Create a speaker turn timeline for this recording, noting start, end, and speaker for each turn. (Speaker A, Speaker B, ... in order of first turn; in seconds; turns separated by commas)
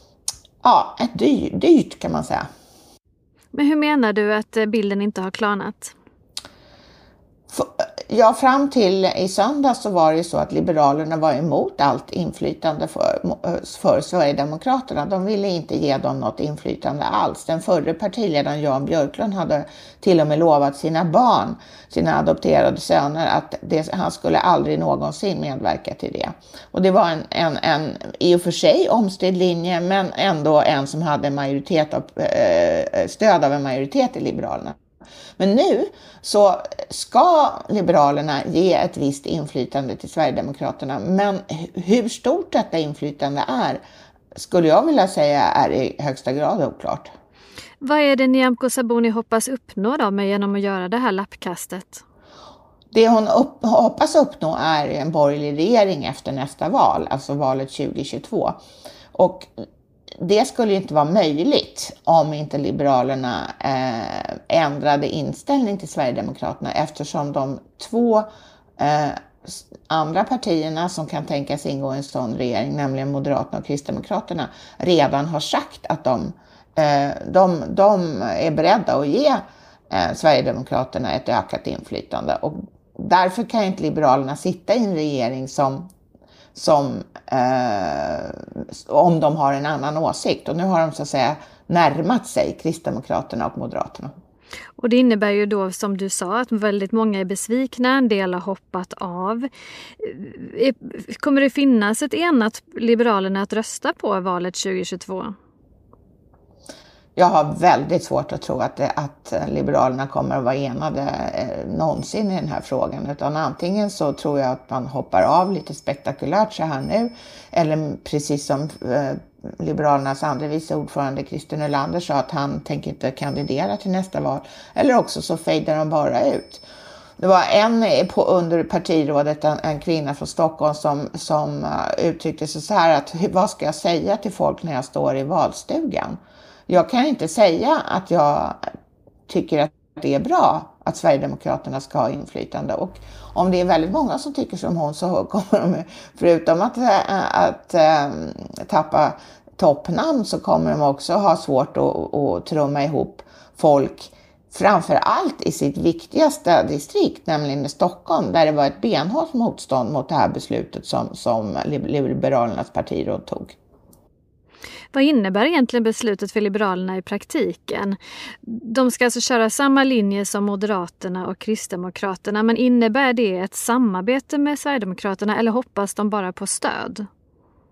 Speaker A: 0.6-2.5, Speaker B: 3.5-5.9, Speaker A: 7.5-34.8, Speaker A: 35.4-43.8, Speaker A: 44.3-47.1, Speaker B: 47.8-52.0, Speaker A: 52.9-58.6, Speaker A: 59.1-59.5, Speaker A: 60.2-68.3, Speaker A: 68.8-85.9, Speaker A: 86.5-94.1, Speaker B: 94.8-99.5, Speaker B: 100.0-105.3, Speaker A: 107.2-126.7, Speaker A: 127.2-138.6, Speaker A: 139.3-163.6, Speaker B: 164.9-177.1